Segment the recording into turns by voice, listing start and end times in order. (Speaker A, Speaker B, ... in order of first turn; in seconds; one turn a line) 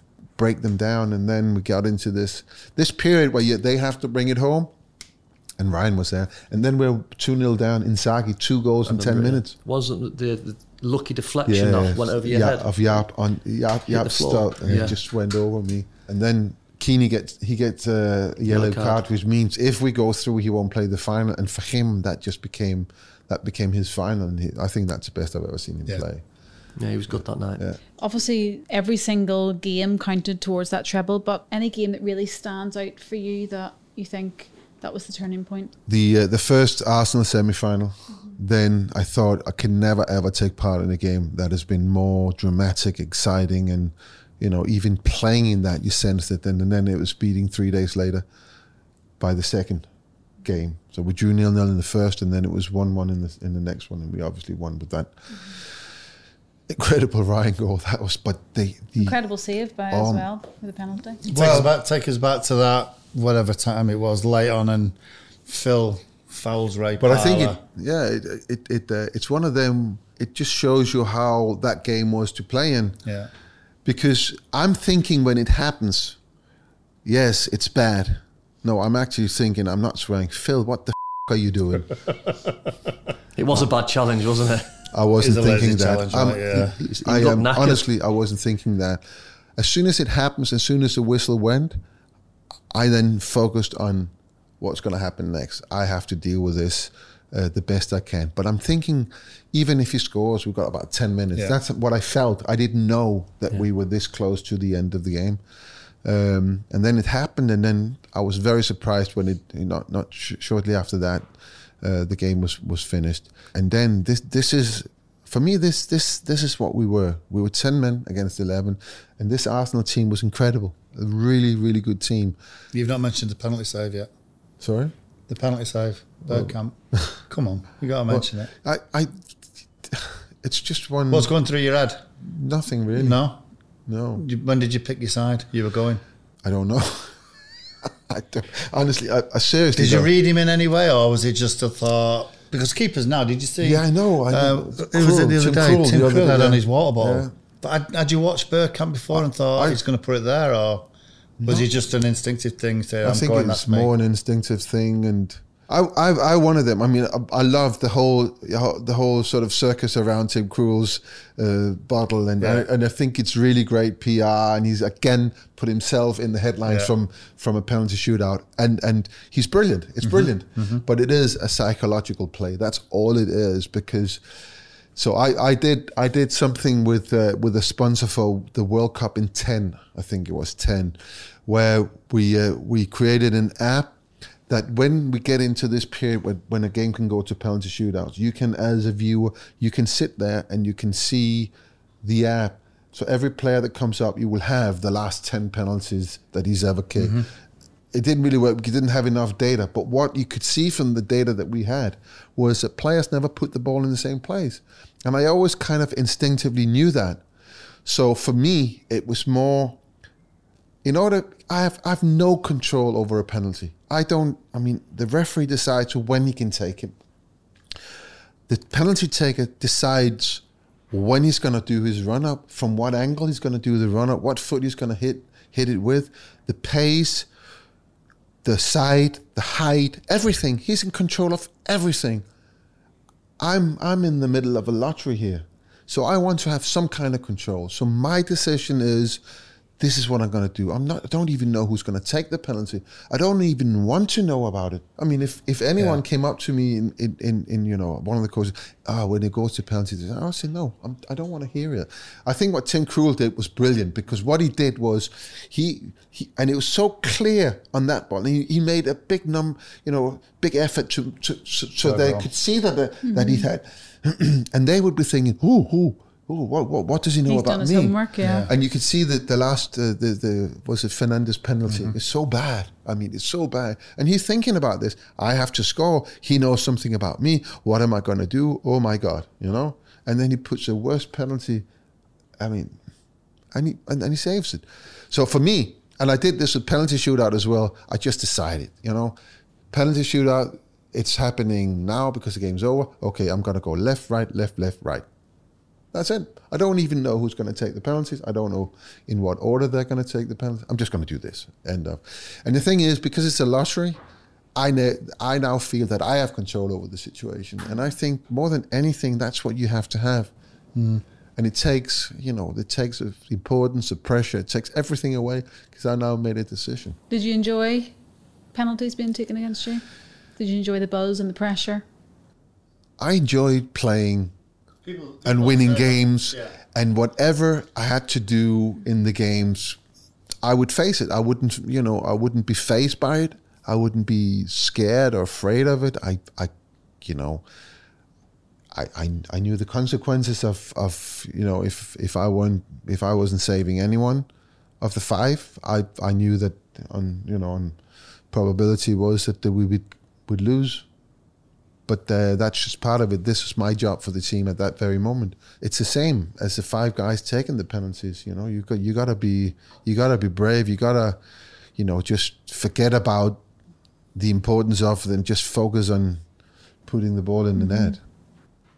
Speaker A: 0.4-4.7
Speaker A: 5.6-9.6
Speaker B: 8.9-12.7
Speaker A: 11.4-26.2
Speaker B: 13.9-15.0
Speaker B: 18.5-19.0
Speaker B: 26.8-27.6
Speaker C: 28.0-35.7
Speaker A: 35.9-48.3
Speaker A: 49.2-49.9
Speaker A: 50.4-55.1
Speaker A: 56.7-59.2
Speaker C: 59.0-61.2
Speaker A: 59.9-60.3
Speaker D: 61.2-67.6
Speaker A: 61.3-61.7
Speaker A: 67.0-73.0
Speaker A: 73.8-76.2
Speaker A: 77.0-81.9
Speaker B: 83.4-84.8
Speaker A: 84.9-89.0
Speaker D: 85.2-86.8
Speaker B: 86.8-87.8
Speaker A: 89.6-91.8
Speaker A: 92.7-105.4
Speaker A: 106.0-111.3
Speaker A: 111.8-122.4
Speaker D: 122.7-124.1
Speaker A: 124.6-124.9
Speaker D: 125.3-126.8
Speaker A: 126.3-127.1
Speaker D: 127.3-128.5
Speaker A: 128.1-129.2
Speaker A: 129.9-131.3
Speaker D: 131.1-132.1
Speaker A: 132.2-133.2
Speaker D: 133.0-133.4
Speaker A: 133.9-134.3
Speaker D: 134.2-136.0
Speaker A: 136.4-137.2
Speaker A: 137.8-140.1
Speaker D: 139.8-150.9
Speaker A: 143.6-147.3
Speaker A: 149.1-149.8
Speaker A: 151.4-151.7
Speaker D: 151.5-153.9
Speaker A: 153.0-174.2
Speaker D: 162.4-162.7
Speaker D: 166.7-166.9
Speaker D: 170.0-170.8
Speaker A: 175.0-183.9
Speaker A: 184.5-191.5
Speaker A: 192.0-197.3
Speaker D: 197.0-197.3
Speaker A: 197.9-207.2
Speaker A: 207.9-209.8
Speaker A: 210.8-217.0
Speaker A: 218.5-227.3
Speaker A: 228.4-232.2
Speaker A: 233.4-239.2
Speaker A: 239.8-281.7
Speaker D: 261.8-262.3
Speaker C: 263.0-263.5
Speaker C: 267.3-268.5
Speaker D: 268.2-268.5
Speaker D: 271.7-271.9
Speaker A: 282.4-282.8
Speaker A: 283.5-289.1
Speaker A: 289.7-295.1
Speaker A: 295.9-304.0
Speaker A: 304.6-310.3
Speaker D: 310.8-311.0
Speaker A: 311.4-317.0
Speaker C: 317.1-317.9
Speaker C: 318.5-319.9
Speaker C: 320.4-321.9
Speaker A: 323.0-324.3
Speaker D: 324.9-326.5
Speaker A: 325.2-329.8
Speaker A: 330.4-337.4
Speaker A: 338.7-344.3
Speaker A: 344.8-347.8
Speaker A: 348.3-350.9
Speaker A: 351.9-361.2
Speaker A: 361.8-363.4
Speaker A: 364.1-366.2
Speaker A: 366.9-368.0